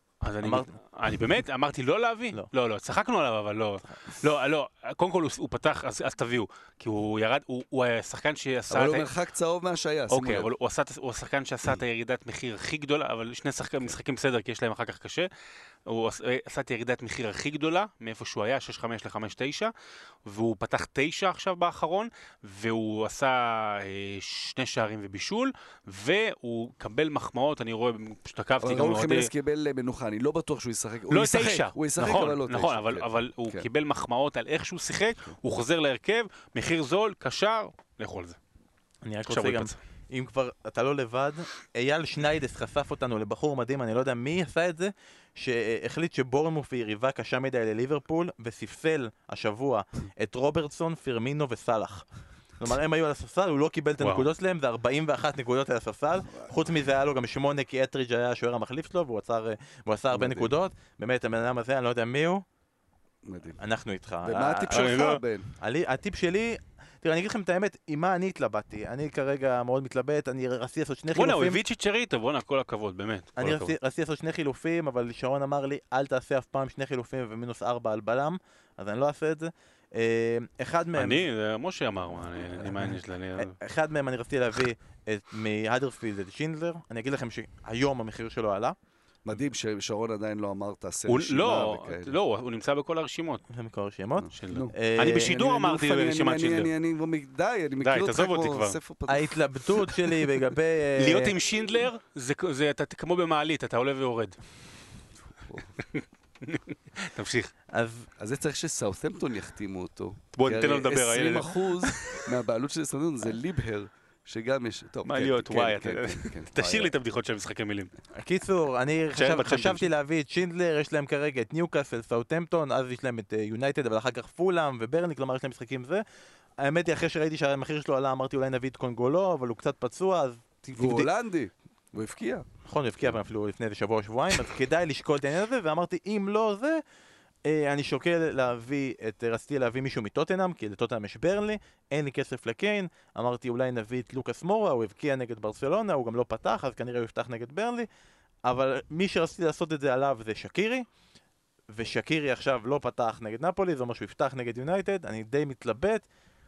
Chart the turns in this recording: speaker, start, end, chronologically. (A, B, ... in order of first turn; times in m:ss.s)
0:00.2-0:09.1 A
0:00.4-0:00.7 B
0:08.7-0:10.5 C
0:10.1-0:15.3 A
0:15.8-0:19.7 A
0:20.2-0:29.3 A
0:28.6-0:33.7 C
0:31.1-0:38.4 A
0:39.0-0:52.1 B
0:39.2-0:39.7 A
0:52.6-1:02.4 B
0:54.0-0:54.3 A
1:00.1-1:00.5 C
1:03.2-1:03.6 C
1:03.6-1:11.6 B
1:04.2-1:05.5 C
1:04.7-1:05.2 A
1:11.1-1:13.7 A
1:13.4-1:21.2 B
1:20.9-1:23.5 A
1:22.7-1:28.7 B
1:29.2-1:32.2 C
1:31.1-1:33.4 A
1:33.5-1:35.3 B
1:34.3-1:36.7 A
1:34.4-1:39.3 C
1:37.8-1:38.8 A
1:39.1-1:41.3 B
1:41.0-1:44.4 A
1:45.4-1:45.7 C
1:45.8-1:47.5 A
1:47.7-1:48.1 B
1:48.2-1:56.9 C
1:50.3-1:52.3 A
1:55.0-1:57.9 A
1:58.1-2:06.0 B
1:59.1-1:59.9 A
2:06.6-2:11.1 B
2:10.8-2:12.4 C
2:12.6-2:16.8 B
2:17.4-2:27.9 B
2:28.4-2:30.8 B
2:31.7-2:36.0 B